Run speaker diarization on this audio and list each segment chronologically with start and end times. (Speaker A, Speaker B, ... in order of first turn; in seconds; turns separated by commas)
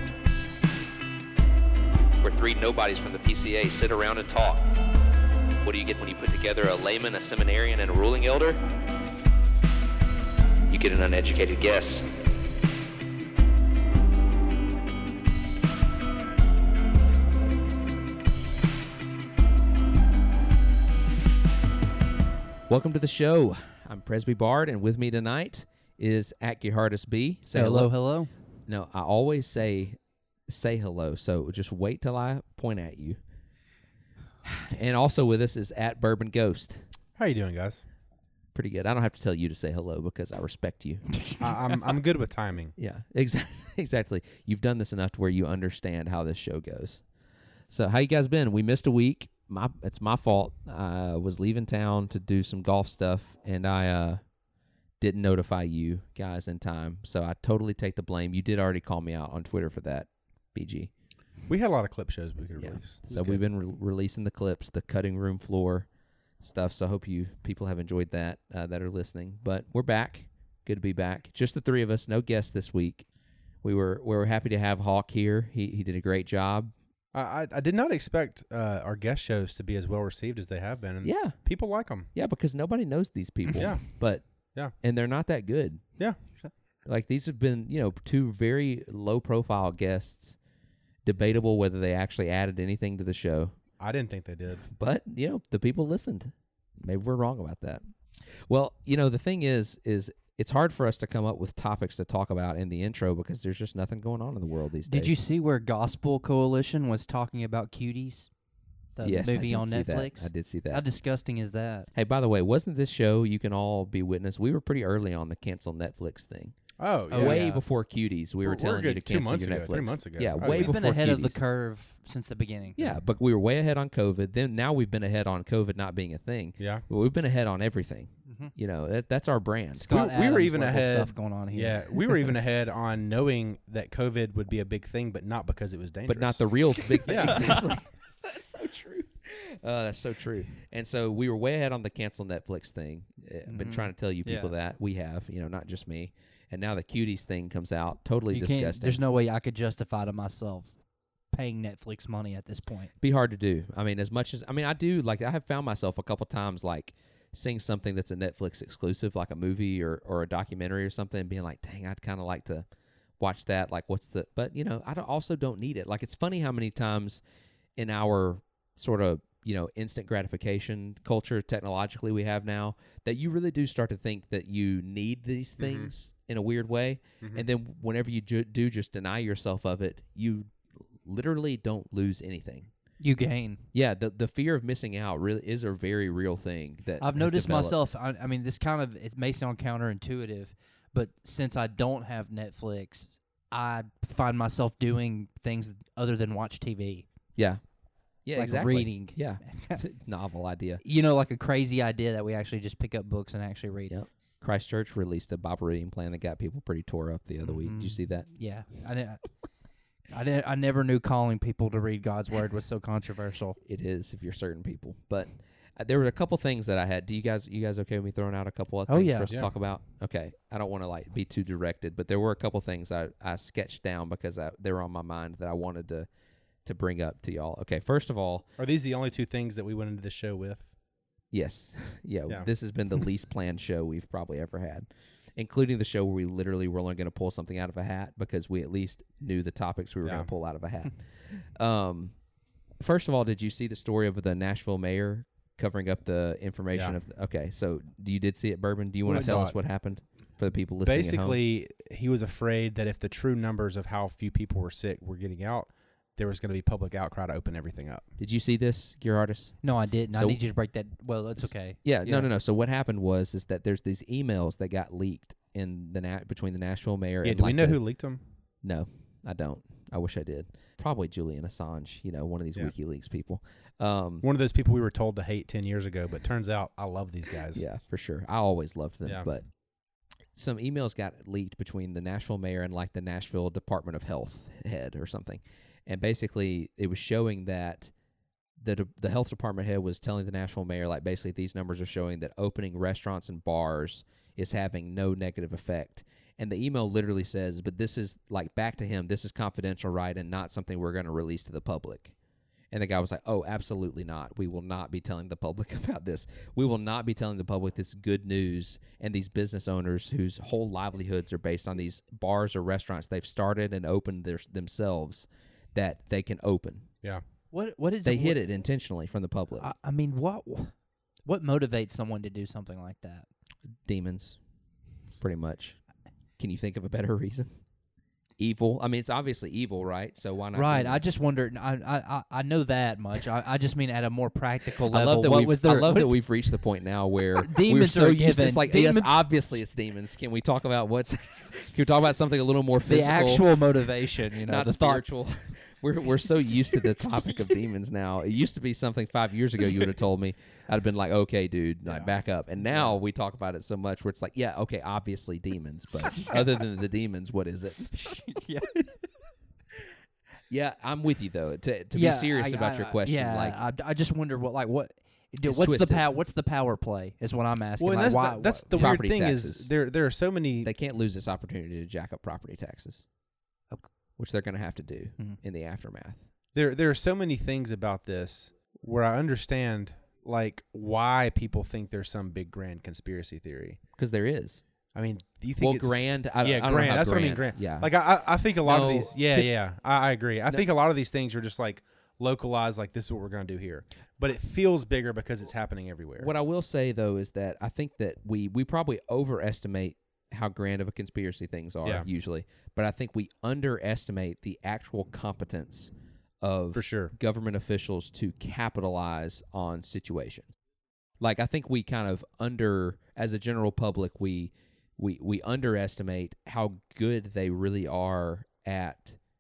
Speaker A: 2.2-4.7, Speaker A: 5.6-8.6, Speaker A: 10.7-12.1, Speaker A: 22.7-27.9, Speaker B: 27.5-28.3, Speaker A: 28.7-30.0, Speaker A: 30.5-33.2, Speaker A: 34.5-36.8, Speaker C: 37.2-37.8, Speaker A: 38.5-41.2, Speaker C: 41.4-42.7, Speaker A: 42.8-47.0, Speaker A: 47.7-54.2, Speaker A: 55.0-60.9, Speaker C: 61.5-63.4, Speaker A: 62.6-65.9, Speaker A: 66.4-73.1, Speaker A: 73.6-76.7, Speaker C: 77.1-82.1, Speaker A: 81.0-81.4, Speaker A: 82.1-84.3, Speaker C: 83.6-83.9, Speaker A: 84.8-85.8, Speaker A: 86.9-90.4, Speaker A: 91.0-93.6, Speaker C: 93.8-94.7, Speaker A: 94.7-97.8, Speaker A: 98.5-105.2, Speaker B: 104.9-108.3, Speaker B: 109.0-111.9, Speaker A: 109.0-110.8, Speaker A: 112.0-116.6, Speaker C: 116.8-117.5, Speaker B: 117.1-117.6, Speaker A: 117.1-121.4, Speaker C: 118.4-120.8, Speaker B: 120.4-123.0, Speaker A: 122.8-129.9, Speaker C: 126.6-126.8, Speaker B: 129.7-132.3, Speaker C: 129.9-137.6, Speaker A: 136.1-149.0, Speaker B: 143.5-144.5, Speaker B: 148.3-150.8, Speaker B: 151.3-152.9, Speaker A: 153.0-162.7, Speaker A: 163.2-167.2, Speaker A: 167.8-182.7, Speaker C: 175.6-175.9, Speaker B: 183.0-183.7, Speaker A: 183.7-187.8, Speaker B: 187.0-197.1, Speaker A: 197.4-197.6, Speaker A: 198.2-200.8, Speaker B: 198.4-199.8, Speaker B: 200.8-203.9, Speaker A: 203.9-208.3, Speaker B: 207.4-209.3, Speaker B: 210.1-213.6, Speaker A: 213.6-226.1, Speaker B: 218.9-219.3, Speaker A: 226.7-228.5, Speaker C: 228.6-230.7, Speaker A: 231.3-242.2, Speaker C: 240.0-240.3, Speaker A: 242.8-251.4, Speaker C: 249.1-249.6, Speaker C: 250.8-258.1, Speaker A: 258.2-260.4, Speaker B: 259.6-262.3, Speaker A: 261.4-267.8, Speaker C: 267.2-268.2, Speaker A: 268.6-274.3, Speaker C: 274.2-277.6, Speaker A: 277.5-279.5, Speaker A: 280.3-287.9, Speaker A: 288.6-302.1, Speaker A: 302.7-316.9, Speaker B: 317.5-318.4, Speaker A: 318.1-319.7, Speaker B: 319.6-320.7, Speaker B: 321.2-323.3, Speaker A: 323.9-324.4, Speaker A: 325.2-325.8, Speaker A: 326.4-327.5, Speaker A: 328.4-331.0, Speaker B: 330.5-336.1, Speaker A: 334.9-343.6, Speaker B: 337.4-339.2, Speaker B: 342.9-345.0, Speaker A: 344.3-358.0, Speaker B: 349.6-349.9, Speaker B: 356.0-356.6, Speaker B: 358.0-358.9, Speaker A: 360.5-363.6, Speaker B: 361.9-368.8, Speaker A: 365.4-366.0, Speaker C: 367.8-370.7, Speaker A: 368.7-369.7, Speaker A: 370.6-373.1, Speaker A: 374.2-376.2, Speaker C: 376.6-383.8, Speaker A: 384.0-384.6, Speaker C: 384.9-396.3, Speaker A: 385.6-387.9, Speaker A: 388.6-389.5, Speaker A: 396.2-410.6, Speaker C: 406.7-407.1, Speaker A: 411.2-419.2